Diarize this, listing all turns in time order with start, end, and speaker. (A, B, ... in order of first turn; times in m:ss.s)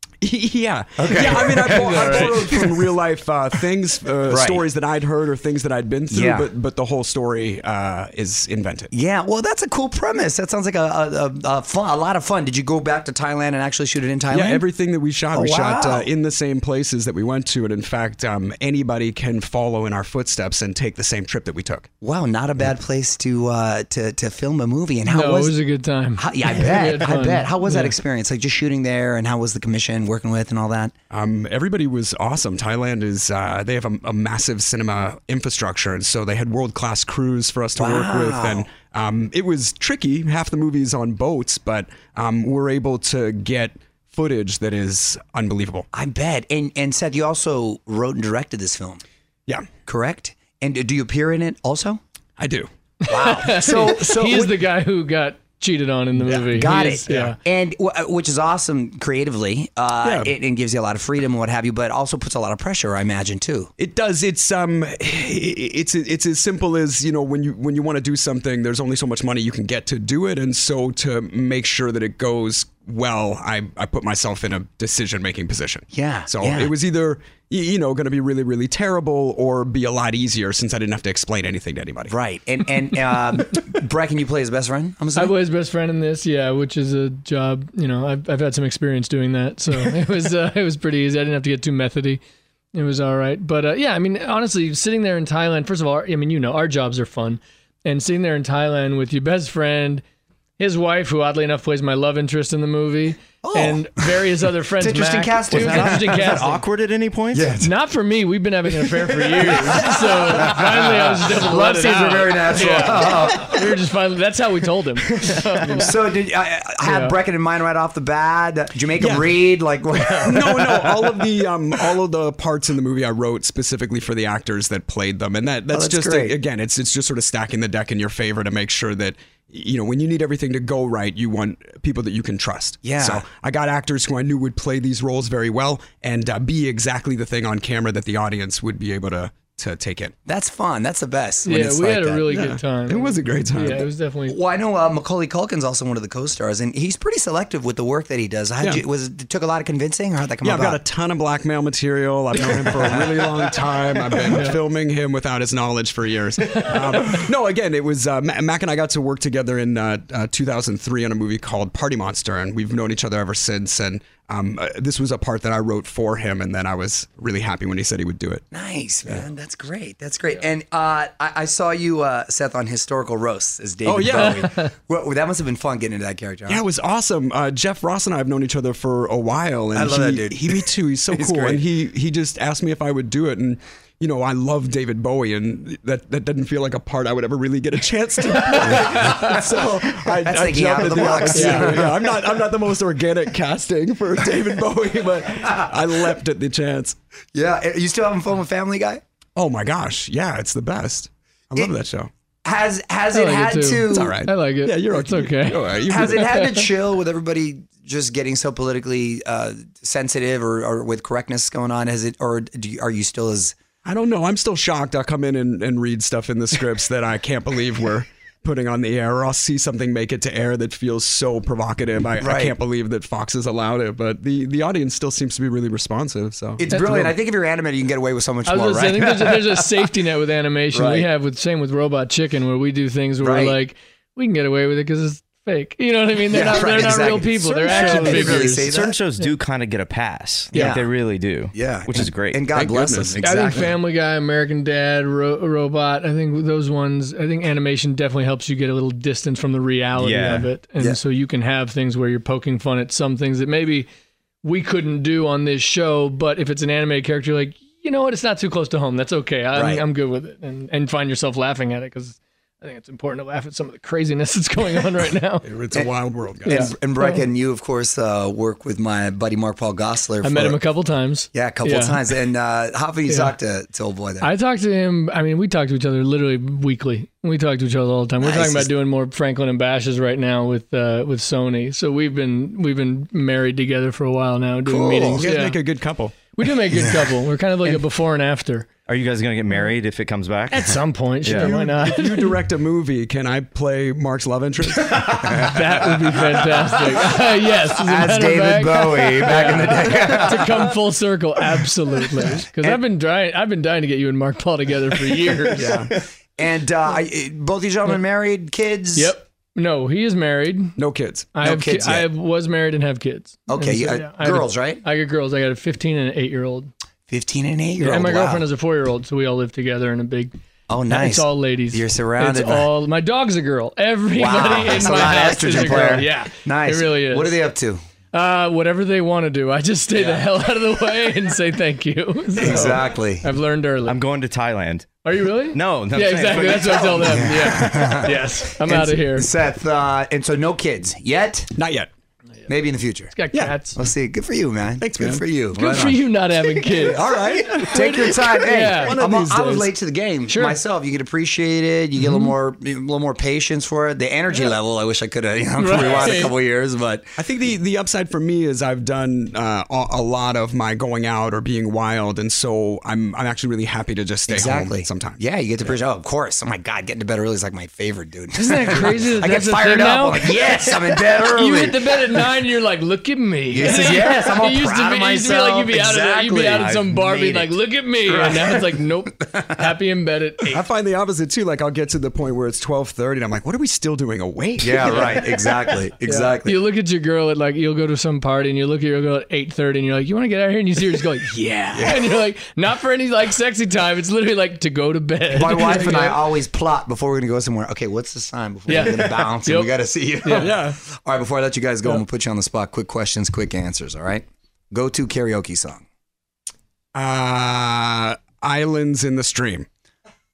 0:00.2-0:08.9 A
0:01.0-0:02.9 B
0:01.8-0:02.3 C
0:04.3-0:04.6 B
0:06.1-0:06.5 B
0:08.9-0:14.6 B
0:14.3-0:21.9 A
0:15.3-0:16.1 B
0:22.0-0:25.6 B
0:25.1-0:28.0 C
0:26.2-0:30.9 B
0:31.1-0:45.8 A
0:37.7-0:38.6 B
0:45.9-0:49.0 B
0:49.5-0:49.7 A
0:49.8-0:52.0 B
0:52.4-0:52.7 A
0:53.0-0:57.4 C
0:53.1-0:54.6 B
0:56.2-0:56.5 A
0:56.5-1:03.7 B
0:57.1-0:57.3 A
1:00.0-1:00.3 A
1:03.8-1:22.1 A
1:15.9-1:16.7 B
1:22.1-1:25.3 B
1:25.2-1:32.2 C
1:32.7-1:40.0 C
1:40.6-1:46.6 C
1:43.4-1:46.6 B
1:45.5-1:47.6 D
1:47.3-1:47.7 B
1:47.6-1:56.1 C
1:48.8-1:53.8 B
1:55.1-2:01.2 B
1:56.8-1:57.2 C
1:59.0-1:59.3 A
2:00.0-2:00.3 C
2:00.2-2:20.1 A
2:05.7-2:06.4 B
2:12.8-2:13.2 B
2:20.2-2:22.2 B
2:21.4-2:24.4 C
2:22.3-2:23.9 A
2:24.2-2:30.8 B
2:30.4-2:48.4 A
2:32.4-2:34.4 B
2:34.3-2:34.6 C
2:48.5-2:56.6 B
2:53.8-2:54.5 A
2:54.3-2:54.7 C
2:56.5-3:17.0 A
2:59.7-3:01.6 B
3:08.6-3:08.9 C
3:08.8-3:12.2 B
3:11.3-3:11.8 C
3:17.3-3:19.0 B
3:19.4-3:22.1 A
3:22.4-3:24.1 B
3:23.1-3:26.6 C
3:23.9-3:26.3 A
3:25.9-3:33.5 B
3:33.8-3:46.8 A
3:42.2-3:42.5 B
3:46.6-3:49.9 B
3:46.7-3:47.1 C
3:48.4-3:58.8 C
3:50.7-3:51.1 B
3:53.2-3:53.6 B
3:56.3-3:59.0 B
3:57.6-4:02.6 D
4:00.5-4:00.9 B
4:01.5-4:03.7 B
4:02.5-4:03.7 A
4:03.2-4:13.9 C
4:10.0-4:10.5 D
4:14.4-4:25.4 C
4:19.5-4:19.8 B
4:25.4-4:26.7 A
4:25.7-4:30.6 B
4:26.4-4:27.2 C
4:30.2-4:32.2 C
4:31.3-4:34.3 B
4:33.1-4:33.3 C
4:34.2-4:45.6 C
4:38.2-4:38.7 B
4:44.6-4:45.2 B
4:45.2-4:46.2 A
4:46.2-4:48.7 C
4:46.7-4:47.0 B
4:48.9-4:50.7 D
4:50.5-4:52.4 C
4:51.2-4:51.5 D
4:51.3-4:56.7 A
4:54.9-4:55.5 B
4:55.4-5:05.8 C
4:57.8-5:00.7 B
5:02.0-5:02.8 B
5:05.5-5:05.9 A
5:06.4-5:09.1 B
5:08.9-5:10.8 C
5:10.8-5:11.3 A
5:11.3-5:16.7 C
5:11.4-5:12.1 B
5:13.5-5:14.8 B
5:17.1-5:18.5 B
5:17.8-5:27.4 C
5:20.7-5:22.7 B
5:24.2-5:27.8 B
5:28.1-5:34.0 C
5:29.9-5:30.2 B
5:32.4-5:33.2 B
5:33.9-5:37.3 D
5:35.0-5:39.3 C
5:36.9-5:41.5 B
5:41.6-5:41.9 A
5:42.5-5:43.1 B
5:43.1-5:43.8 C
5:43.3-5:43.6 A
5:43.7-5:46.9 B
5:44.8-5:45.2 A
5:45.5-5:47.0 C
5:46.8-5:49.7 A
5:47.6-5:57.2 B
5:48.4-5:49.0 C
5:50.2-5:50.6 C
5:52.0-5:52.3 C
5:55.6-5:56.3 C
5:55.7-5:56.1 A
5:57.2-6:05.2 A
6:04.2-6:12.5 B
6:08.4-6:20.7 C
6:13.5-6:16.7 B
6:16.5-6:17.6 D
6:18.0-6:18.8 B
6:20.5-6:25.5 A
6:24.6-6:26.6 B
6:24.8-6:36.4 C
6:31.7-6:32.1 B
6:35.3-6:45.8 B
6:38.7-6:40.5 C
6:40.3-6:40.8 A
6:46.9-6:49.6 A